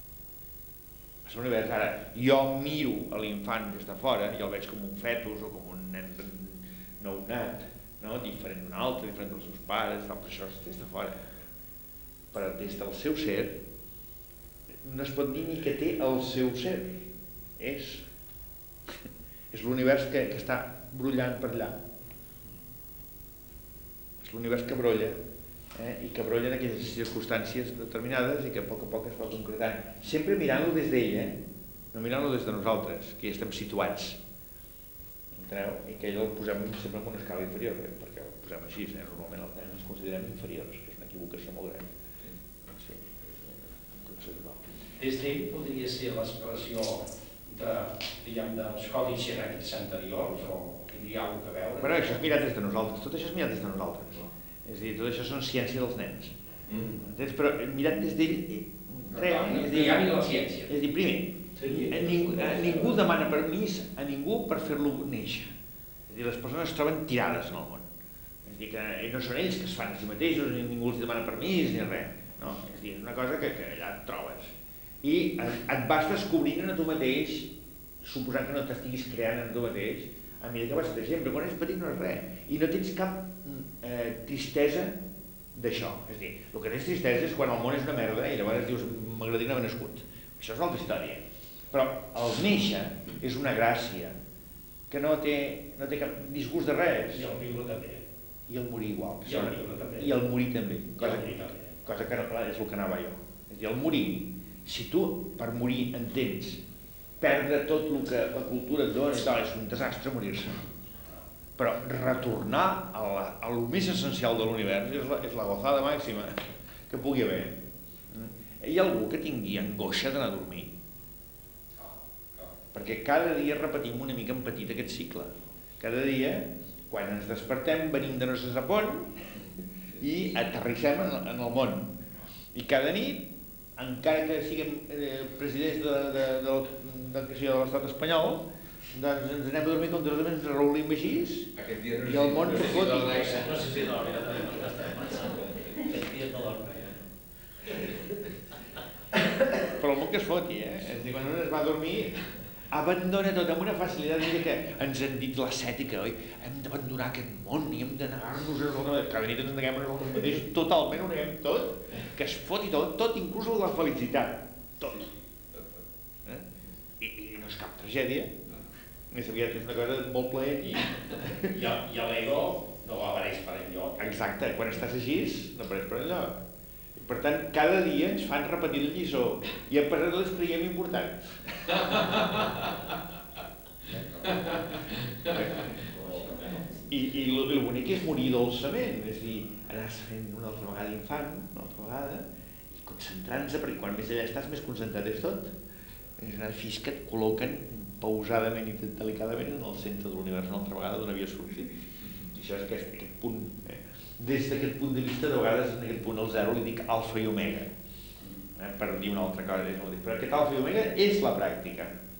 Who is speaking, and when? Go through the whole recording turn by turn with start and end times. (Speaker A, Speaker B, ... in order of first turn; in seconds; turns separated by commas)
Speaker A: 1.2-11.3, Speaker A: 12.3-13.6, Speaker A: 14.8-17.1, Speaker A: 17.6-18.1, Speaker A: 19.5-21.8, Speaker A: 24.2-25.2, Speaker A: 25.8-31.4, Speaker A: 31.9-34.2, Speaker A: 35.4-41.9, Speaker A: 42.6-44.6, Speaker B: 45.0-52.2, Speaker A: 51.8-56.3, Speaker A: 56.9-65.5, Speaker B: 59.1-60.7, Speaker B: 61.6-63.0, Speaker A: 66.1-67.9, Speaker A: 68.5-77.5, Speaker A: 78.0-85.0, Speaker A: 85.5-94.2, Speaker A: 94.9-97.3, Speaker B: 97.1-98.0, Speaker A: 98.5-106.6, Speaker B: 99.2-100.2, Speaker B: 101.0-101.7, Speaker A: 107.2-110.7, Speaker A: 111.6-120.7, Speaker B: 121.8-122.5, Speaker A: 122.7-129.3, Speaker A: 130.0-131.9, Speaker A: 132.5-141.5, Speaker C: 141.6-143.6, Speaker A: 142.0-143.4, Speaker D: 143.2-147.1, Speaker A: 149.6-165.1, Speaker A: 167.0-168.3, Speaker A: 169.1-171.5, Speaker B: 171.4-174.2, Speaker A: 174.0-176.4, Speaker A: 177.0-181.8, Speaker C: 182.1-182.4, Speaker C: 184.2-186.6, Speaker A: 185.3-185.7, Speaker A: 186.9-195.5, Speaker A: 196.2-207.7, Speaker A: 208.6-211.9